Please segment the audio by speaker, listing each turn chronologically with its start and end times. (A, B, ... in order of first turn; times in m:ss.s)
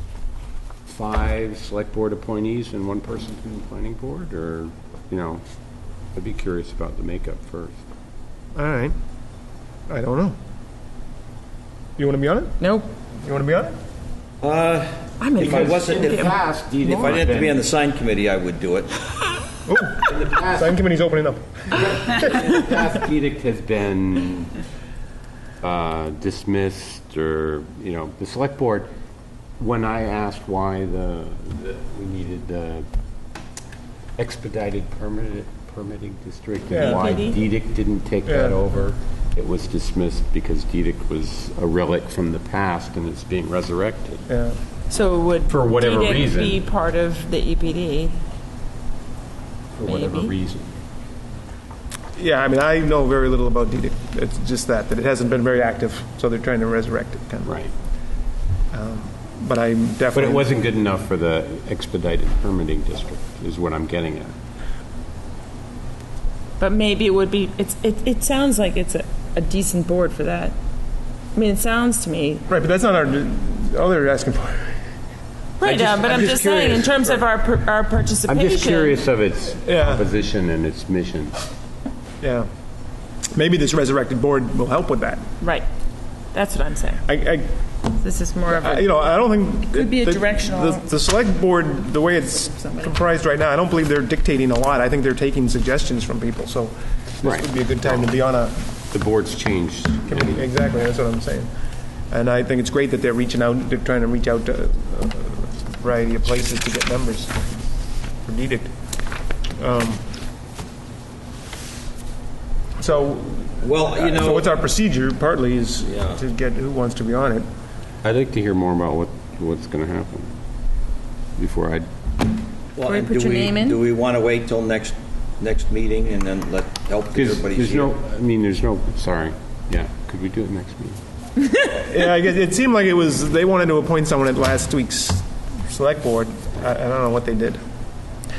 0:00.9-0:05.4 A
0:06.1-0:07.8 A
0:08.5-0:08.9 B
0:09.9-0:10.3 B
0:12.0-0:12.6 B
0:12.6-0:12.9 C
0:13.2-0:13.7 B
0:14.4-0:18.9 D
0:15.2-0:17.2 C
0:15.4-0:17.6 A
0:19.7-0:22.2 B
0:20.0-0:20.8 A
0:21.7-0:24.5 A
0:25.6-0:28.9 A
0:29.6-0:32.9 A
0:34.2-0:44.2 A
0:36.7-0:37.0 B
0:36.8-0:37.4 C
0:38.2-0:38.6 B
0:44.3-0:44.6 B
0:44.9-0:48.2 C
0:45.5-0:46.6 A
0:49.8-0:50.8 A
0:49.8-0:50.3 C
0:52.2-0:57.5 B
0:57.4-0:57.7 A
0:58.7-1:00.5 B
1:00.1-1:04.3 A
1:06.6-1:10.5 C
1:11.3-1:12.4 C
1:12.5-1:14.7 B
1:15.6-1:19.0 C
1:15.6-1:16.9 A
1:18.3-1:21.4 A
1:19.6-1:20.0 B
1:22.2-1:22.5 B
1:23.3-1:25.2 B
1:25.4-1:25.6 C
1:26.3-1:27.0 C
1:27.1-1:27.5 B
1:28.0-1:29.1 C
1:28.5-1:38.6 B
1:29.7-1:30.9 C
1:32.4-1:32.9 C
1:37.2-1:38.0 A
1:38.9-1:40.4 A
1:40.1-1:41.5 B
1:42.1-1:47.5 B
1:48.2-1:48.7 B
1:49.6-1:50.0 B
1:52.8-1:57.4 B
1:53.6-1:54.5 D
1:55.8-1:56.2 D
1:58.0-2:00.3 A
2:01.4-2:01.9 A
2:02.8-2:07.9 D
2:02.8-2:03.8 C
2:07.1-2:11.0 A
2:11.7-2:17.6 B